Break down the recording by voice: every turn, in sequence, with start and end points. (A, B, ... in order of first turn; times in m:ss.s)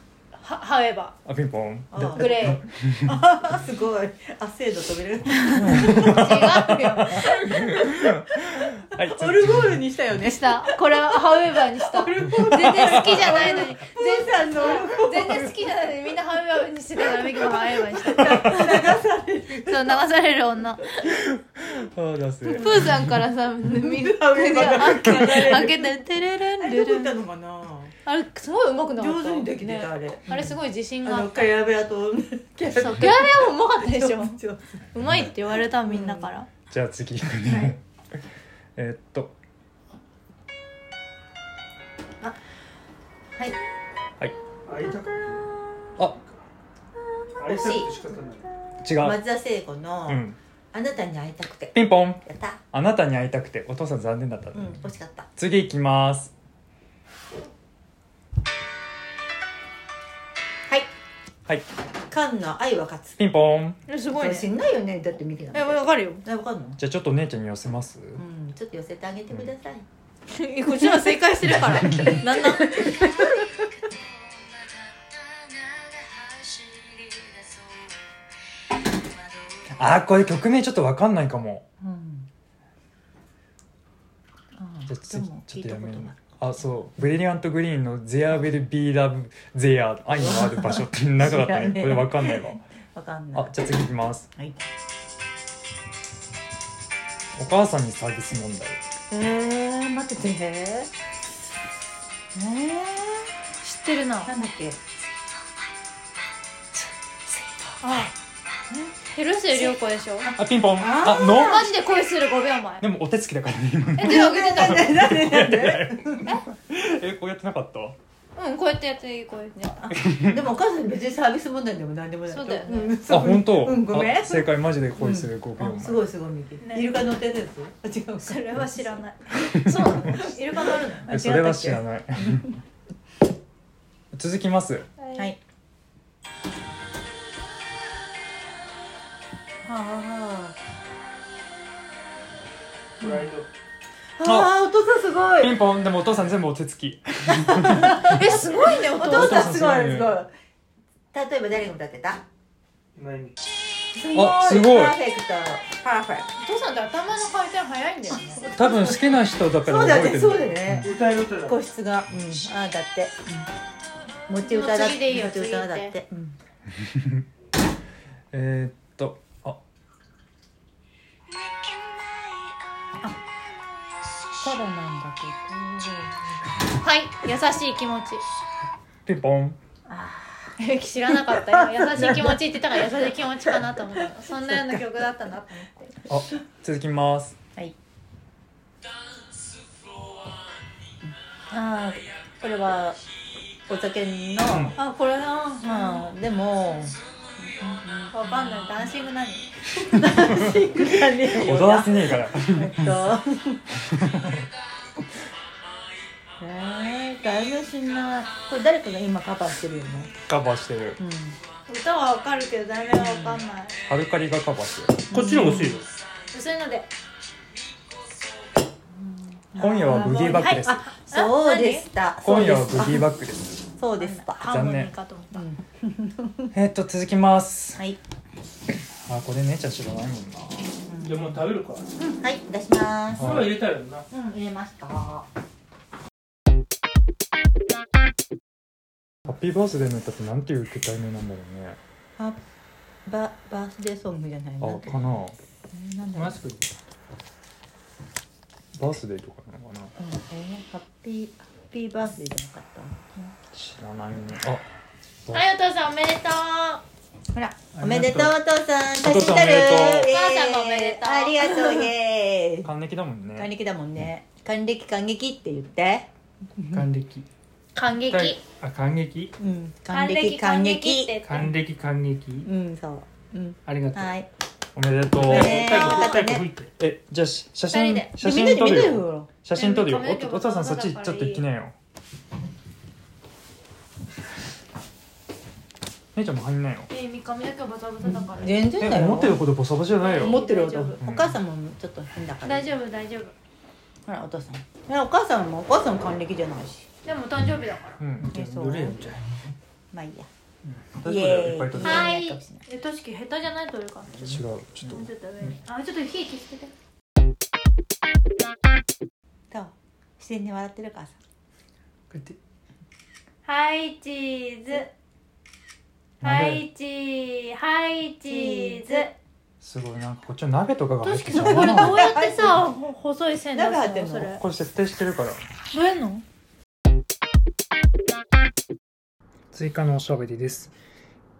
0:00.4-0:01.1 A
0:01.2-0:03.2 B
0:01.9-0:06.3 C
0:02.1-0:02.6 A
0:05.4-0:07.4 A
0:05.6-0:09.8 B
0:07.1-0:15.5 C
0:10.2-0:18.8 A
0:12.6-0:13.4 B
0:18.0-0:20.0 C
0:18.1-0:18.6 B
0:19.6-0:21.2 A
0:21.1-0:23.2 B
0:22.6-0:27.1 A
0:23.7-0:25.9 C
0:25.0-0:25.6 B
0:26.6-0:27.9 C
0:28.0-0:31.5 A
0:29.0-0:34.8 C
0:32.7-0:34.4 A
0:34.9-0:36.5 A
0:35.9-0:36.3 C
0:36.7-0:37.8 B
0:37.4-0:37.7 C
0:38.8-0:39.4 B
0:44.6-0:45.4 D
0:47.4-0:48.0 C
0:47.4-0:48.5 D
0:48.8-0:49.2 B
0:49.0-0:52.6 C
0:50.1-0:50.4 B
0:51.7-0:54.8 B
0:54.5-0:55.3 C
0:55.4-0:56.3 B
1:02.1-1:03.2 C
1:03.2-1:03.8 B
1:03.9-1:04.5 A
1:04.1-1:06.8 C
1:05.5-1:06.2 A
1:06.8-1:08.2 B
1:08.2-1:09.8 C
1:10.3-1:13.5 A
1:11.6-1:12.2 B
1:11.8-1:13.4 C
1:14.0-1:17.8 C
1:19.7-1:21.7 B
1:21.8-1:22.3 C
1:24.6-1:26.2 C
1:24.9-1:32.6 B
1:30.1-1:33.5 C
1:33.3-1:34.3 B
1:37.4-1:38.8 B
1:39.1-1:40.9 C
1:42.3-1:43.3 C
1:43.6-1:44.3 A
1:44.2-1:44.8 C
1:47.3-1:47.8 C
1:47.8-1:48.1 A
1:49.1-1:50.3 A
1:49.5-1:51.7 C
1:50.4-1:51.7 B
1:51.3-1:52.8 A
1:52.8-1:58.0 B
1:54.0-1:54.9 A
1:54.0-1:56.3 C
1:58.4-1:59.9 A
1:59.9-2:00.4 B
2:00.0-2:09.0 C
2:02.3-2:03.0 A
2:03.1-2:06.0 B
2:06.6-2:07.0 A
2:08.2-2:11.1 A
2:09.4-2:10.2 B
2:10.0-2:12.4 C
2:11.1-2:12.6 B
2:14.1-2:14.9 B
2:15.0-2:15.3 A
2:19.6-2:20.5 C
2:23.0-2:23.3 C
2:23.0-2:23.5 D
2:24.2-2:25.5 C
2:24.2-2:24.5 B
2:25.4-2:28.2 B
2:27.3-2:30.3 C
2:27.9-2:29.6 A
2:29.0-2:30.1 B
2:31.1-2:32.2 C
2:33.0-2:33.4 D
2:33.9-2:36.3 C
2:34.1-2:35.0 B
2:36.4-2:38.5 A
2:38.5-2:40.9 B
2:39.6-2:43.4 C
2:40.8-2:41.6 D
2:44.3-2:46.4 C
2:44.4-2:45.9 A
2:46.8-2:47.2 B
2:48.3-2:49.6 B
2:54.4-2:56.6 C
2:56.8-2:58.2 A
2:59.0-2:59.6 B
2:59.9-3:00.5 C
3:00.6-3:05.9 A
3:01.1-3:02.6 C
3:03.5-3:04.8 C
3:06.1-3:07.4 B
3:11.5-3:13.0 C
3:13.7-3:14.8 C
3:14.5-3:14.7 B
3:14.8-3:16.0 A
3:15.6-3:18.9 C
3:18.1-3:19.5 A
3:19.8-3:23.6 C
3:21.3-3:23.1 B
3:23.8-3:24.4 B
3:26.4-3:30.1 C
3:30.3-3:31.0 B
3:31.0-3:31.4 C
3:31.7-3:33.8 A
3:32.9-3:33.4 C
3:33.9-3:35.0 B
3:35.1-3:35.9 C
3:35.1-3:35.9 D
3:36.3-3:36.9 A
3:38.9-3:43.1 C
3:39.6-3:40.8 B
3:39.6-3:41.8 A
3:42.2-3:43.6 B
3:43.8-3:44.5 C
3:44.0-3:45.4 A
3:44.4-3:44.9 B
3:45.3-3:46.5 C
3:46.5-3:47.8 B
3:49.0-3:50.7 B
3:50.9-3:51.3 C
3:51.0-3:51.9 D
3:52.0-3:53.3 C
3:53.2-3:54.0 D
3:53.2-3:53.6 B
3:54.1-3:55.3 C
3:59.2-4:01.8 B
4:03.0-4:05.0 C
4:04.6-4:05.4 B
4:05.7-4:06.4 C
4:06.1-4:06.6 D
4:08.7-4:09.9 B
4:10.0-4:13.3 C
4:13.5-4:14.7 B
4:15.3-4:16.8 A
4:17.3-4:22.7 C
4:17.7-4:18.3 B
4:19.0-4:20.1 B
4:20.0-4:21.8 A
4:22.6-4:23.5 B
4:23.4-4:26.9 C
4:26.7-4:27.3 D
4:27.7-4:28.4 A
4:28.1-4:29.3 D
4:29.4-4:31.4 C
4:29.9-4:31.5 A
4:31.2-4:32.5 D
4:32.4-4:34.3 C
4:33.6-4:34.1 D
4:34.7-4:35.8 B
4:35.2-4:36.7 D
4:35.2-4:36.5 C
4:36.8-4:41.8 B
4:37.7-4:38.1 A
4:38.2-4:39.3 C
4:39.5-4:41.4 A
4:46.1-4:46.9 B
4:46.9-4:48.6 A
4:48.0-4:49.4 C
4:48.8-4:50.4 B
4:50.0-4:51.0 A
4:50.2-4:52.7 C
4:51.0-4:51.4 B
4:52.4-4:53.3 A
4:54.0-4:56.9 C
4:57.0-4:58.0 A
4:58.0-4:58.8 B
4:58.2-4:59.0 C
4:58.4-4:59.4 D
4:59.9-5:00.3 C
5:01.0-5:02.1 B
5:01.0-5:02.6 C
5:01.8-5:06.7 A
5:04.1-5:05.6 B
5:09.5-5:11.2 C
5:13.4-5:14.9 A
5:16.2-5:16.6 B
5:16.2-5:19.1 A
5:18.2-5:19.1 C
5:19.6-5:22.1 B
5:21.0-5:24.4 A
5:21.4-5:22.6 C
5:23.5-5:24.4 C
5:24.3-5:25.4 B
5:25.7-5:26.2 A
5:29.5-5:30.7 B